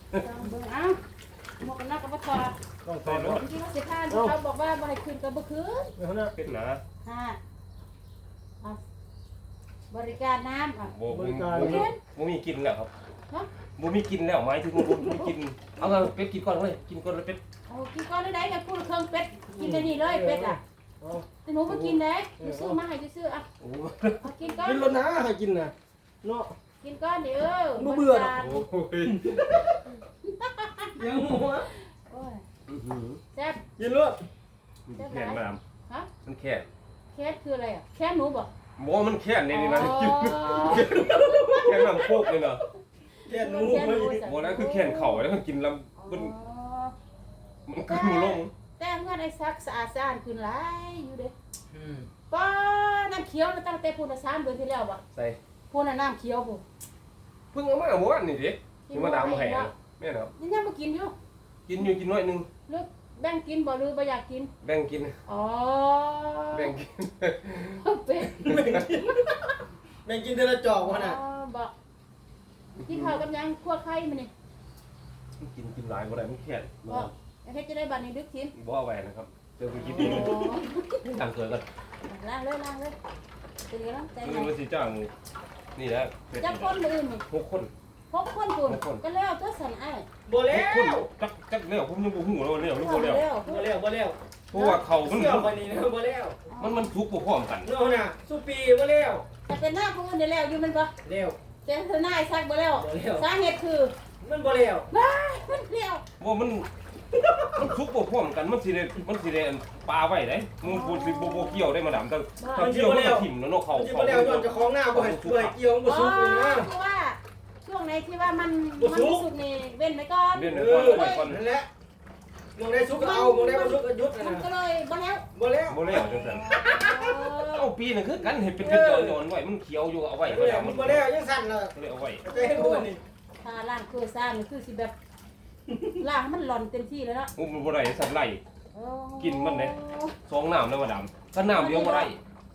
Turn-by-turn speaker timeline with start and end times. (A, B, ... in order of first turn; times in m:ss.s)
0:00.1-0:01.0 A
0:01.6-0:02.6 A
0:02.8-0:03.4 B
0:03.0-0:03.4 C
0:03.3-0:05.9 A
0:04.1-0:04.4 B
0:06.0-0:06.3 B
0:06.4-0:06.8 C
0:07.0-0:07.4 A
0:09.9-0:10.9 A
0:10.9-0:12.9 C
0:11.1-0:11.9 B
0:11.6-0:12.0 A
0:13.8-0:17.4 C
0:17.7-0:20.6 A
0:19.6-0:21.3 B
0:21.4-0:23.4 A
0:21.7-0:22.0 C
0:22.4-0:22.8 B
0:23.6-0:24.3 C
0:24.2-0:24.9 A
0:24.6-0:26.5 B
0:26.8-0:28.6 A
0:27.8-0:28.4 B
0:28.4-0:29.3 C
0:29.1-0:29.8 B
0:30.2-0:30.9 A
0:31.0-0:31.7 B
0:32.0-0:32.4 A
0:32.7-0:33.2 C
0:33.3-0:33.6 A
0:33.8-0:34.2 B
0:34.9-0:35.6 C
0:35.0-0:36.1 A
0:36.2-0:36.7 C
0:37.1-0:38.5 A
0:38.8-0:42.6 C
0:39.5-0:40.9 A
0:40.6-0:42.1 B
0:43.2-0:44.2 B
0:43.3-0:45.3 A
0:44.2-0:46.3 C
0:46.0-0:46.9 A
0:47.7-0:48.5 C
0:47.9-0:51.3 A
0:51.7-0:52.1 B
0:52.3-0:55.0 A
0:55.7-0:56.6 A
0:57.5-1:00.3 C
0:58.9-0:59.7 A
1:00.4-1:01.1 A
1:01.7-1:02.5 C
1:02.7-1:04.5 A
1:04.6-1:05.2 C
1:05.3-1:06.7 A
1:06.5-1:07.8 C
1:07.5-1:09.6 A
1:08.4-1:09.2 B
1:08.5-1:08.8 C
1:10.0-1:11.2 B
1:10.7-1:11.7 A
1:12.8-1:13.2 C
1:12.9-1:14.3 A
1:15.4-1:17.1 C
1:16.9-1:18.5 A
1:18.6-1:20.5 C
1:19.8-1:20.8 A
1:20.0-1:20.5 B
1:21.0-1:21.7 C
1:22.1-1:23.0 A
1:23.7-1:24.5 A
1:24.2-1:25.1 C
1:25.8-1:26.8 C
1:26.4-1:27.2 A
1:27.3-1:27.7 C
1:28.1-1:30.1 A
1:28.7-1:29.0 C
1:30.3-1:31.1 B
1:30.5-1:33.2 C
1:32.7-1:33.7 A
1:33.4-1:34.2 B
1:34.5-1:35.5 C
1:34.5-1:34.8 A
1:35.0-1:36.4 B
1:36.5-1:36.9 A
1:36.6-1:37.7 C
1:37.6-1:39.2 B
1:39.5-1:40.9 A
1:41.0-1:41.4 B
1:41.6-1:43.9 A
1:42.8-1:43.3 B
1:44.2-1:44.9 B
1:44.9-1:46.0 A
1:46.2-1:46.7 C
1:47.5-1:55.6 C
1:50.6-1:51.7 A
1:52.4-1:52.7 A
1:52.6-1:56.7 B
1:55.8-2:01.3 A
1:58.8-1:59.3 B
2:00.3-2:01.4 C
2:00.5-2:01.7 B
2:02.6-2:04.4 B
2:02.9-2:05.2 A
2:05.4-2:06.0 B
2:05.7-2:06.5 C
2:05.9-2:07.7 A
2:06.8-2:07.1 B
2:07.5-2:11.1 C
2:08.6-2:09.2 B
2:10.2-2:11.7 B
2:11.7-2:12.2 C
2:12.2-2:12.9 A
2:12.2-2:13.0 B
2:13.4-2:14.9 A
2:16.0-2:17.3 A
2:17.4-2:18.4 C
2:18.7-2:20.2 A
2:19.2-2:19.8 C
2:20.3-2:22.2 C
2:21.4-2:22.1 A